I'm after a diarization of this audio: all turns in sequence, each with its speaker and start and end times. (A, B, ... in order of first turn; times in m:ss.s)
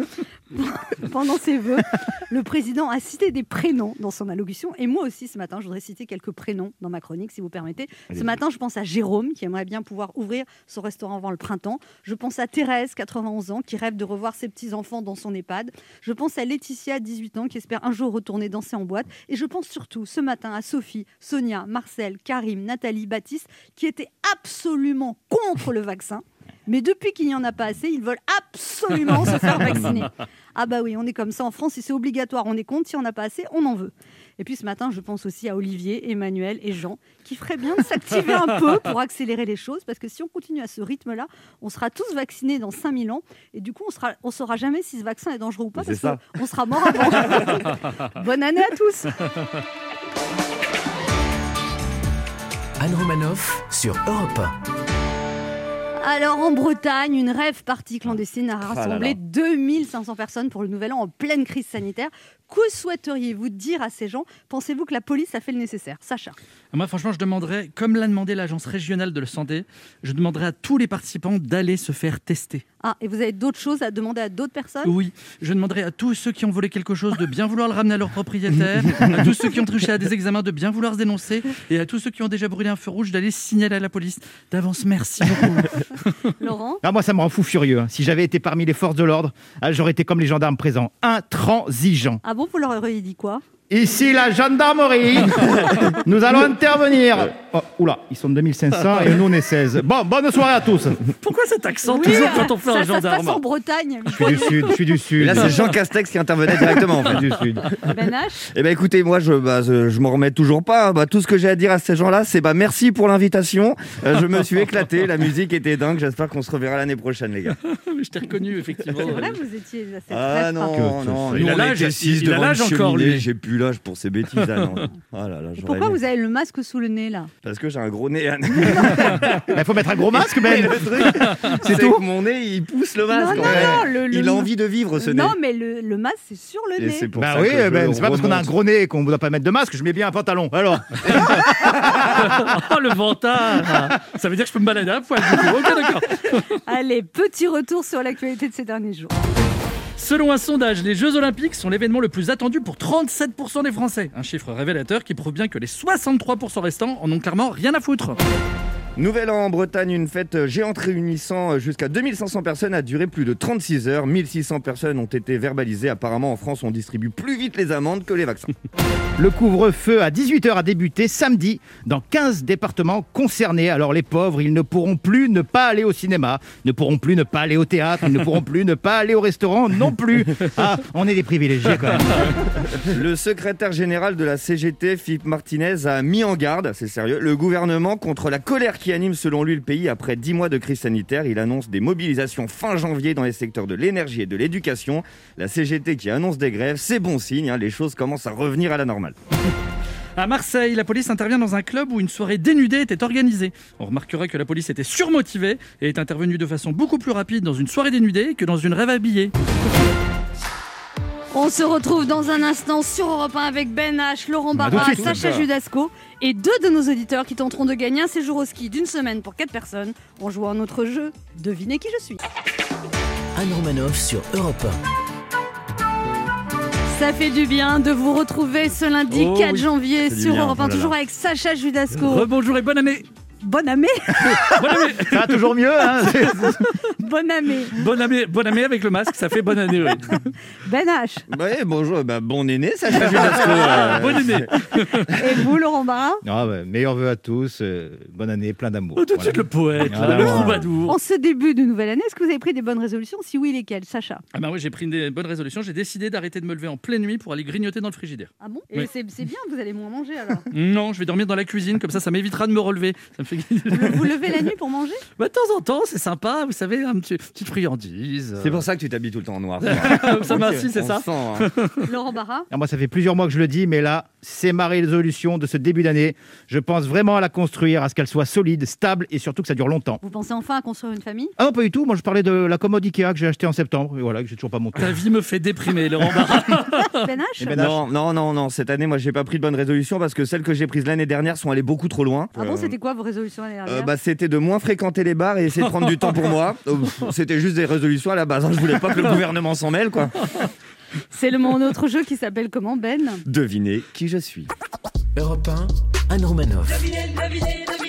0:00.5-0:49.2 A
0:45.8-0:46.2 B
0:47.2-0:47.5 B
0:52.8-0:54.6 C
0:56.0-1:06.4 A
0:58.6-0:59.2 B
1:06.7-1:12.6 D
1:12.8-1:15.0 A
1:14.8-1:26.0 D
1:26.4-1:26.8 A
1:26.8-1:32.2 E
1:32.2-1:33.4 A
1:33.7-1:41.0 E
1:41.2-1:43.4 D
1:41.8-1:44.9 A
1:44.1-1:45.6 E
1:45.2-1:47.8 B
1:47.0-1:47.7 E
1:47.9-1:48.5 A
1:48.6-1:57.6 B
1:57.6-1:59.4 D
1:59.0-2:00.8 A
2:00.1-2:06.0 B
2:00.7-2:01.6 E
2:01.3-2:03.3 D
2:05.6-2:07.3 A
2:07.4-2:15.4 B
2:09.5-2:12.0 E
2:13.1-2:17.1 A
2:13.3-2:13.8 E
2:16.8-2:18.5 B
2:17.2-2:22.4 E
2:21.0-2:22.1 B
2:22.1-2:26.6 D
2:26.6-2:29.2 A
2:30.0-2:38.2 D
2:39.0-2:48.5 B
2:49.2-3:02.7 E
3:02.8-3:19.2 B
3:20.2-3:29.3 D
3:31.3-3:42.2 A
3:34.6-3:35.4 E
3:34.6-3:35.5 B
3:43.4-3:44.8 C
3:46.9-3:52.3 A
3:49.1-3:49.7 D
3:50.0-3:50.9 B
3:52.0-3:53.1 D
3:53.4-3:54.6 A
3:54.3-3:56.3 D
3:55.0-3:56.7 E
3:57.0-3:57.8 A
3:57.7-4:00.2 D
4:00.6-4:01.3 A
4:01.3-4:04.5 B
4:03.0-4:05.1 D
4:05.1-4:06.2 A
4:06.2-4:10.7 E
4:09.0-4:11.0 D
4:10.0-4:14.2 A
4:14.3-4:18.9 D
4:18.4-4:20.5 A
4:20.5-4:24.3 D
4:23.7-4:25.0 A
4:25.2-4:28.7 D
4:28.4-4:31.5 B
4:29.6-4:31.9 D
4:31.8-4:32.5 A
4:32.5-4:40.0 E
4:40.0-4:41.4 A
4:41.4-4:45.0 E
4:44.8-4:47.1 D
4:46.9-4:47.6 A
4:47.4-4:47.9 E
4:47.6-4:52.8 B
4:52.4-4:53.9 A
4:53.7-5:00.3 B
4:55.6-4:56.3 D
5:01.1-5:03.2 A
5:03.3-5:04.5 B
5:05.2-5:07.0 C